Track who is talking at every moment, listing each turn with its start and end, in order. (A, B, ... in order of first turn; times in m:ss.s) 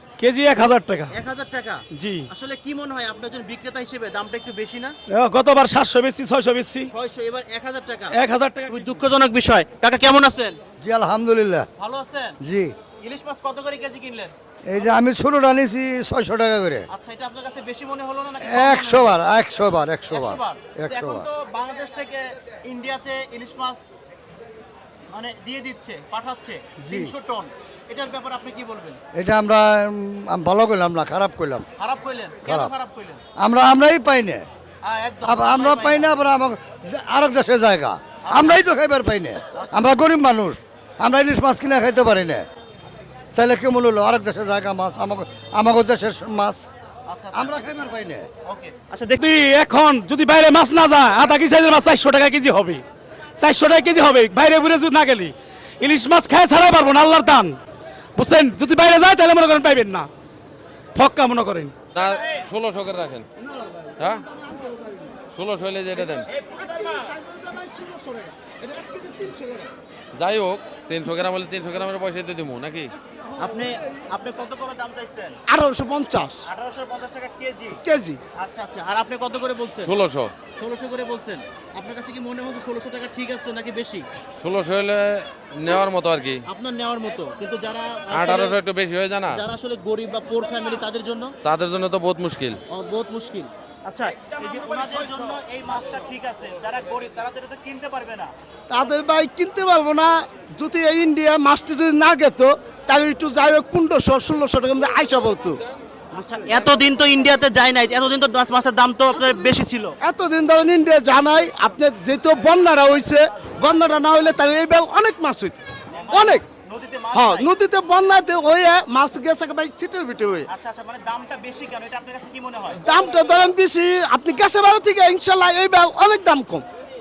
0:00.2-0:01.1 A
0:01.1-0:04.9 B
0:02.0-0:02.2 A
0:05.1-0:06.9 A
0:06.9-0:08.1 B
0:08.2-0:08.9 A
0:08.7-0:10.6 B
0:10.8-0:11.6 C
0:11.8-0:12.4 B
0:12.4-0:12.7 C
0:13.0-0:14.3 B
0:14.7-0:16.8 C
0:16.9-0:19.1 B
0:18.4-0:21.3 C
0:20.1-0:23.8 B
0:25.1-0:29.0 B
0:26.8-0:27.1 C
0:29.2-0:31.6 C
0:31.8-0:33.2 B
0:32.4-0:32.7 C
0:33.4-0:34.4 C
0:34.8-0:36.1 B
0:35.2-0:42.4 C
0:38.2-0:38.6 B
0:39.5-0:39.9 B
0:43.3-0:46.6 C
0:47.1-0:47.6 B
0:47.3-0:48.2 C
0:48.4-0:49.2 B
0:49.2-0:52.8 A
0:53.4-0:57.6 A
0:58.2-1:00.1 A
1:01.0-1:01.7 A
1:01.9-1:03.3 D
1:05.3-1:06.3 D
1:06.6-1:09.7 E
1:10.2-1:12.9 D
1:13.4-1:15.4 B
1:15.5-1:16.3 E
1:16.4-1:17.8 B
1:17.8-1:18.2 E
1:18.4-1:19.9 B
1:19.8-1:20.3 D
1:20.5-1:24.0 B
1:24.4-1:26.4 D
1:26.5-1:28.6 B
1:28.1-1:29.4 D
1:29.3-1:31.3 B
1:31.4-1:32.6 D
1:32.7-1:38.3 B
1:38.7-1:45.6 E
1:46.1-1:49.9 B
1:49.1-1:49.5 E
1:50.0-1:55.6 E
1:55.9-1:57.5 B
1:56.1-1:56.4 E
1:57.1-2:00.4 E
2:00.5-2:02.8 B
2:02.8-2:06.6 E